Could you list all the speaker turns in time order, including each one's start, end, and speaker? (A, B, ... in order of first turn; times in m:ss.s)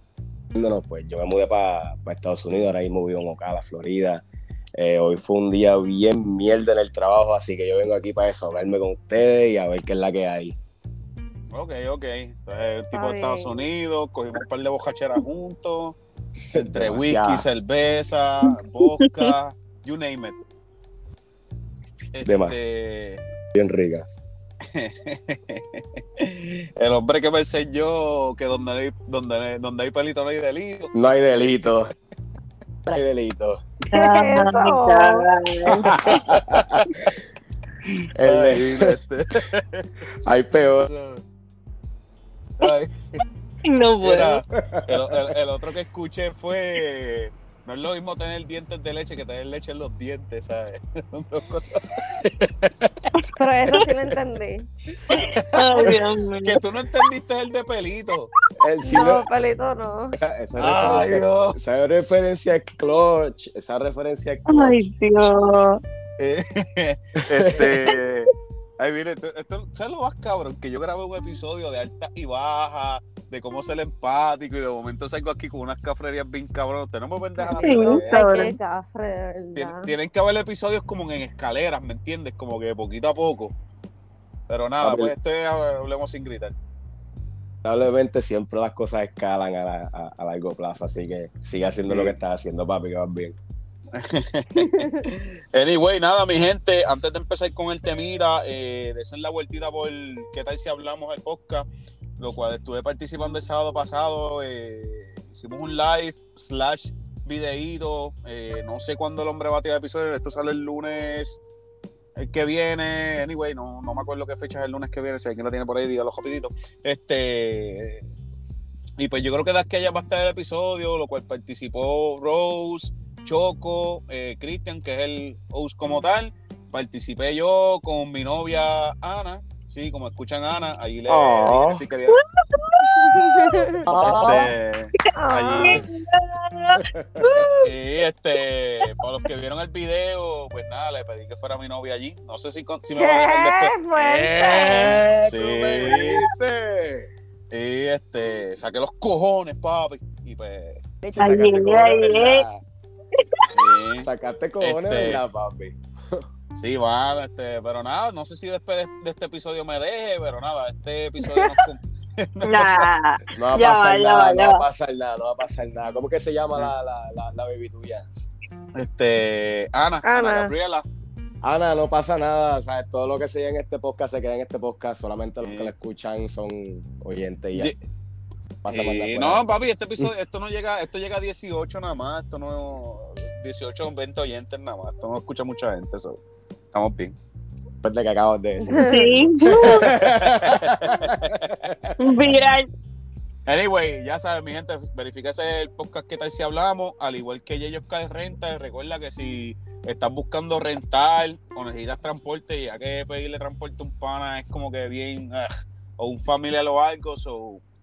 0:00.5-0:04.2 A
0:04.8-0:10.6 A
0:11.5-0:16.0 B
0:12.9-0:13.7 C
0:16.5-0:17.6 A
0:16.5-0:20.4 B
0:19.0-0:19.3 D
0:22.1-0:23.2 B
0:22.2-0:22.6 A
0:23.5-0:24.1 A
0:24.7-0:30.9 B
0:30.9-0:31.9 A
0:32.8-0:33.6 A
0:33.9-0:36.4 D
0:33.9-0:35.3 C
0:35.7-0:37.2 A
0:36.0-0:36.9 B
0:37.8-0:41.2 B
0:38.2-0:39.0 A
0:40.2-0:40.9 A
0:42.6-0:43.2 B
0:43.6-0:44.4 D
0:44.0-0:52.3 B
0:44.6-0:45.0 A
0:52.2-0:52.9 A
0:53.3-0:54.7 C
0:55.1-0:56.6 D
0:55.1-0:58.3 B
0:58.6-0:59.3 A
0:58.8-1:00.2 C
1:00.2-1:04.8 A
1:00.6-1:01.6 B
1:04.5-1:05.8 D
1:06.2-1:18.5 B
1:07.3-1:07.8 A
1:17.4-1:19.9 C
1:17.5-1:18.5 D
1:19.6-1:23.5 B
1:24.5-1:26.6 B
1:24.8-1:25.1 A
1:27.6-1:33.4 A
1:31.9-1:32.2 B
1:33.9-1:41.7 B
1:34.6-1:35.0 C
1:42.2-1:51.4 B
1:52.2-1:58.0 B
1:59.0-2:12.2 B
2:11.1-2:11.8 A
2:12.1-2:13.2 D
2:12.9-2:14.4 C
2:13.9-2:14.5 A
2:14.0-2:15.8 B
2:15.1-2:15.8 C
2:15.6-2:17.7 D
2:16.8-2:17.5 A
2:17.6-2:23.7 B
2:23.0-2:25.0 C
2:24.0-2:27.1 A
2:25.2-2:26.3 B
2:27.5-2:30.8 B
2:31.0-2:32.6 A
2:31.2-2:32.4 D
2:33.2-2:33.5 D
2:33.5-2:34.1 B
2:34.0-2:36.2 A
2:34.6-2:35.2 B
2:36.5-2:42.9 B
2:41.3-2:41.5 C
2:42.4-2:44.6 D
2:43.3-2:48.1 A
2:48.8-2:50.9 B
2:50.0-2:50.5 C
2:51.4-2:57.7 A
2:55.4-2:55.7 B
2:58.6-2:59.5 A
2:58.7-3:06.2 B
3:06.7-3:07.2 B
3:07.8-3:12.0 A
3:08.6-3:09.2 C
3:08.8-3:09.9 D
3:09.4-3:11.6 B
3:12.0-3:12.7 D
3:13.5-3:27.6 B